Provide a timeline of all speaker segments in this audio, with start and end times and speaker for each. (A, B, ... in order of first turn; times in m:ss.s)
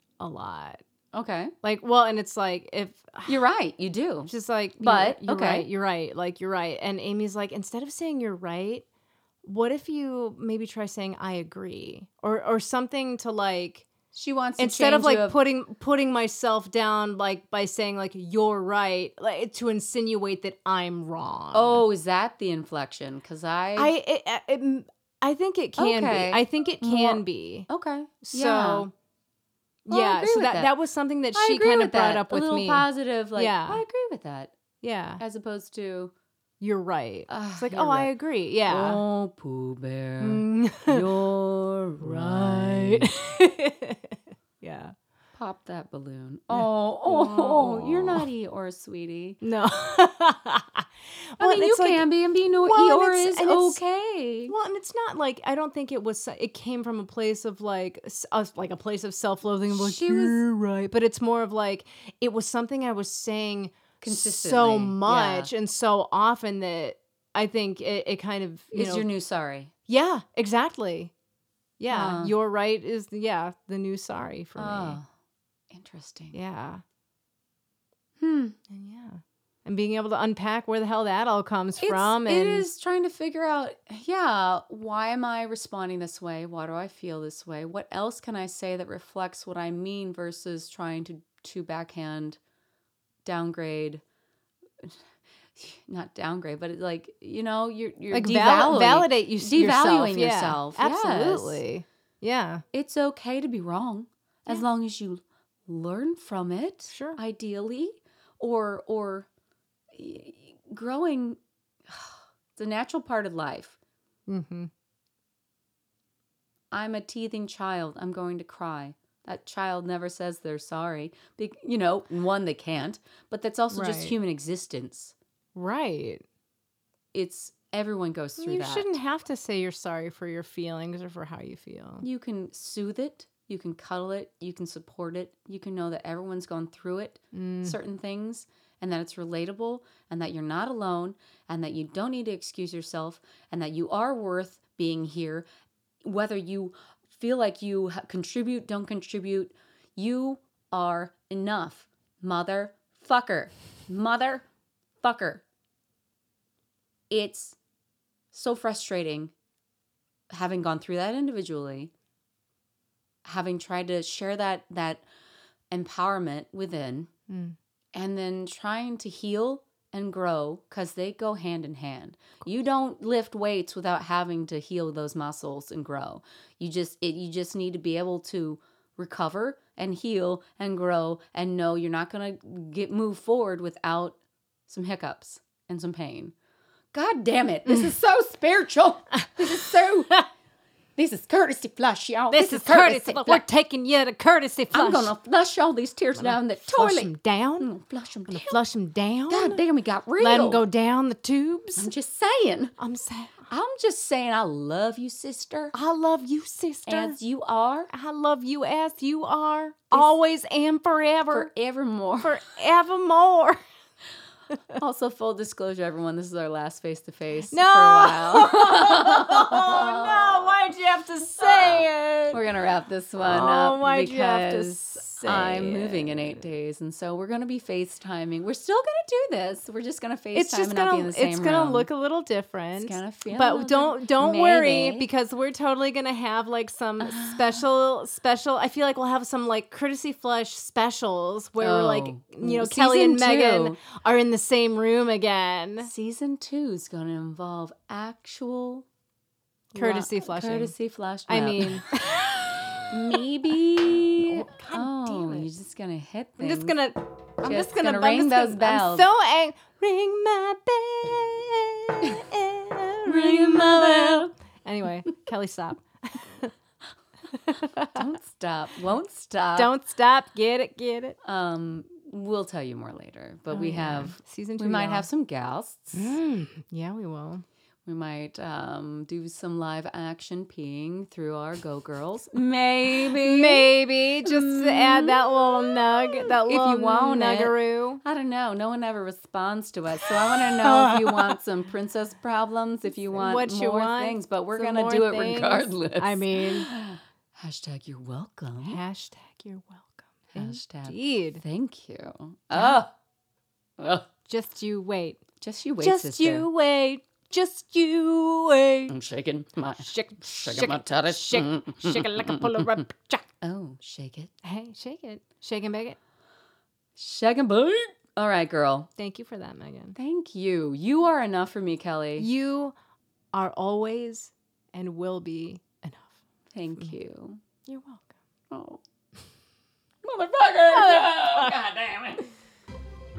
0:00.2-0:00.8 A
0:01.1-0:01.5 B
0:01.6-0:03.4 A
0:03.2-0:05.7 B
0:04.3-0:08.8 A
0:09.4-0:13.9 A
0:14.1-0:15.4 B
0:14.6-0:21.8 A
0:21.5-0:23.9 B
0:23.8-0:27.7 A
0:25.8-0:28.9 B
0:28.2-0:28.9 A
0:29.8-0:33.8 A
0:29.9-0:30.7 B
0:31.3-0:34.6 B
0:34.8-0:35.2 A
0:35.2-0:36.1 B
0:36.6-0:39.0 A
0:37.3-0:38.1 B
0:38.6-0:43.2 B
0:40.2-0:41.0 A
0:42.0-0:44.9 A
0:45.3-0:49.4 B
0:46.5-0:48.3 A
0:49.4-0:52.1 A
0:51.4-0:54.6 B
0:52.6-0:53.8 A
0:54.5-1:09.1 A
0:59.7-1:00.4 B
1:04.0-1:05.5 B
1:08.7-1:09.7 B
1:09.9-1:11.1 A
1:11.8-1:15.0 A
1:11.9-1:12.3 B
1:14.6-1:15.1 B
1:15.7-1:16.4 B
1:16.3-1:16.8 A
1:18.2-1:18.6 B
1:18.7-1:22.6 A
1:21.8-1:32.4 B
1:33.2-1:34.0 B
1:35.5-1:41.6 B
1:38.1-1:42.6 A
1:42.7-1:49.3 B
1:46.9-1:47.2 A
1:49.9-1:53.8 B
1:54.3-1:54.7 A
1:56.7-2:05.1 B
2:03.7-2:04.2 A
2:05.5-2:06.2 A
2:07.1-2:08.9 B
2:08.4-2:12.0 A
2:12.0-2:25.4 B
2:17.3-2:17.8 A
2:26.0-2:34.4 B
2:35.0-2:35.4 B
2:37.1-2:37.6 B
2:38.3-2:39.3 B
2:40.3-2:41.9 B
2:43.2-2:45.0 B
2:45.7-2:47.1 B
2:47.3-2:47.6 A
2:47.9-3:06.3 B
3:06.9-3:10.2 B
3:11.0-3:13.4 B
3:12.3-3:15.1 A
3:14.7-3:18.6 B
3:16.1-3:17.7 A
3:18.3-3:19.6 A
3:19.3-3:20.6 B
3:20.2-3:21.9 A
3:21.8-3:22.7 B
3:22.8-3:23.4 A
3:23.5-3:25.7 B
3:25.7-3:27.2 A
3:26.9-3:27.9 B
3:27.9-3:31.5 A
3:29.9-3:30.2 B
3:31.3-3:32.4 B
3:32.2-3:33.6 A
3:34.8-3:40.5 B
3:37.5-3:42.4 A
3:41.4-3:51.9 B
3:43.2-3:46.4 A
3:50.3-4:05.9 A
3:52.8-3:55.1 B
3:57.0-3:57.6 B
4:01.6-4:03.8 B
4:05.8-4:08.9 B
4:09.7-4:16.8 B
4:09.7-4:10.7 A
4:11.3-4:13.2 A
4:14.2-4:15.5 A
4:16.4-4:26.5 A
4:17.4-4:19.1 B
4:23.1-4:24.3 B
4:27.3-4:28.1 A
4:27.9-4:29.7 B
4:29.6-4:31.2 A
4:31.2-4:36.2 B
4:33.5-4:35.1 A
4:35.9-4:37.4 A
4:37.8-4:58.8 B
4:43.1-4:48.0 A
4:50.1-4:51.4 A
4:53.1-4:56.7 A
4:58.6-5:01.4 A
5:00.3-5:02.9 B
5:02.5-5:02.8 A
5:03.8-5:04.1 B
5:04.2-5:05.2 A
5:05.4-5:06.5 B
5:05.8-5:08.9 A
5:08.9-5:12.9 B
5:09.8-5:13.2 A
5:13.4-5:14.3 B
5:14.4-5:16.0 A
5:17.0-5:18.9 B
5:19.0-5:20.0 A
5:19.9-5:22.3 B
5:22.2-5:22.7 A
5:23.3-5:26.2 A
5:26.5-5:27.4 B
5:27.7-5:28.1 A
5:28.5-5:28.8 B
5:30.0-5:32.2 B
5:30.7-5:31.5 A